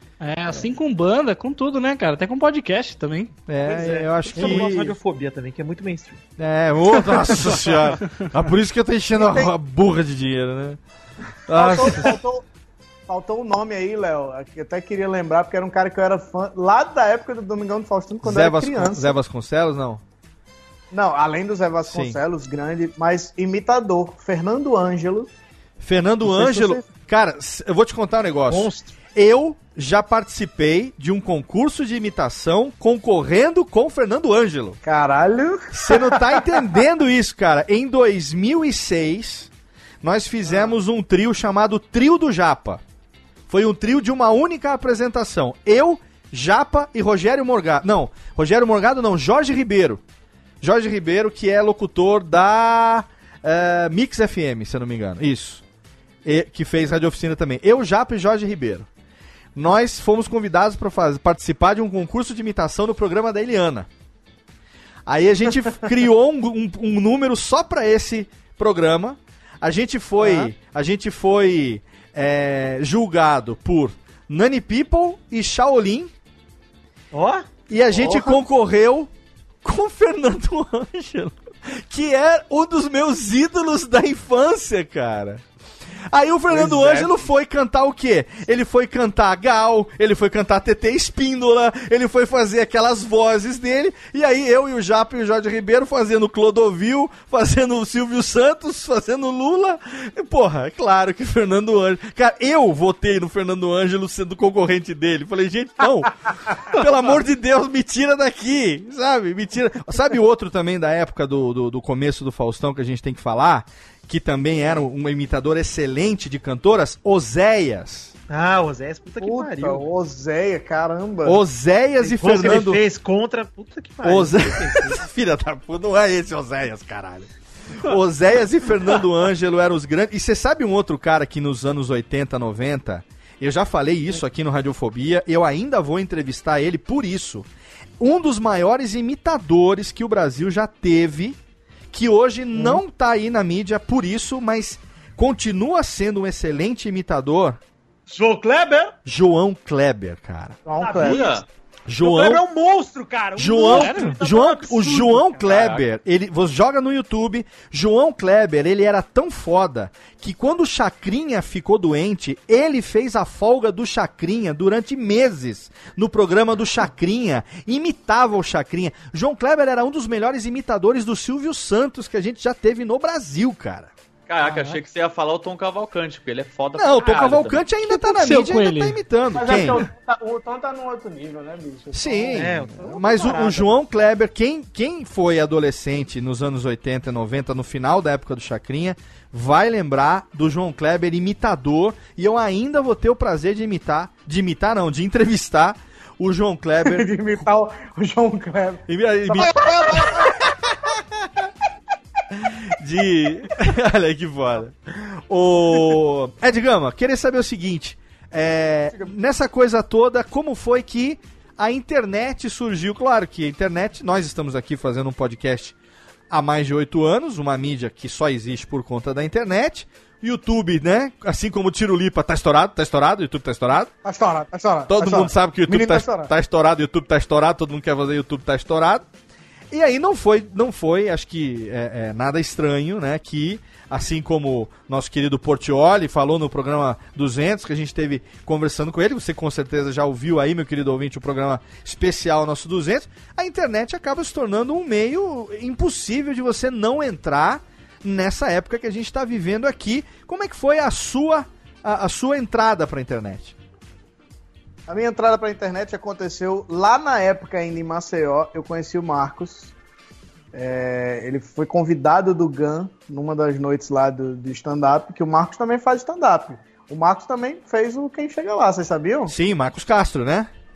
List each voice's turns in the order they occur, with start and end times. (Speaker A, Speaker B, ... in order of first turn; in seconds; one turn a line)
Speaker A: 0.2-3.4
Speaker B: 3.5-4.9
Speaker C: 3.6-6.2
Speaker B: 6.4-10.8
Speaker D: 9.2-9.5
Speaker B: 11.5-12.2
Speaker D: 11.5-12.4
Speaker D: 13.1-19.2
Speaker B: 18.2-20.0
Speaker D: 20.9-25.3
Speaker B: 21.9-22.2
Speaker B: 25.8-34.8
Speaker D: 26.2-26.8
Speaker C: 28.5-28.9
Speaker D: 34.8-36.8
Speaker B: 35.7-39.5
Speaker B: 40.0-42.8
Speaker B: 43.5-50.0
Speaker B: 50.6-55.6
Speaker B: 56.2-58.9
Speaker B: 59.5-63.9
Speaker B: 65.1-76.1
Speaker C: 70.2-70.5
Speaker C: 77.1-77.5
Speaker B: 77.7-79.1
Speaker D: 78.0-78.4
Speaker B: 79.6-85.4
Speaker B: 86.1-118.1
Speaker D: 86.5-87.2
Speaker C: 118.3-119.8
Speaker D: 119.2-121.4
Speaker B: 121.2-122.8
Speaker C: 122.0-125.0
Speaker B: 124.0-137.5
Speaker B: 138.0-141.4
Speaker B: 141.9-147.6
Speaker C: 148.1-148.9
Speaker B: 149.1-150.6
Speaker D: 150.7-151.3
Speaker C: 150.8-151.4
Speaker E: 151.0-151.4
Speaker B: 151.9-152.4
Speaker C: 152.0-155.4
Speaker B: 153.4-173.9
Speaker A: 153.7-154.2
Speaker E: 155.4-155.8
Speaker E: 174.3-177.7
Speaker C: 174.4-174.8
Speaker B: 176.8-179.8
Speaker A: 177.8-179.0
Speaker D: 179.3-182.6
Speaker B: 181.9-197.4
Speaker C: 182.3-183.7
Speaker D: 196.8-200.4
Speaker B: 198.9-201.3
Speaker B: 202.3-215.8
Speaker B: 216.3-223.9
Speaker D: 224.1-226.3
Speaker B: 224.9-229.1
Speaker B: 229.7-253.6
Speaker D: 254.9-259.7
Speaker D: 260.5-269.4
Speaker B: 269.3-270.5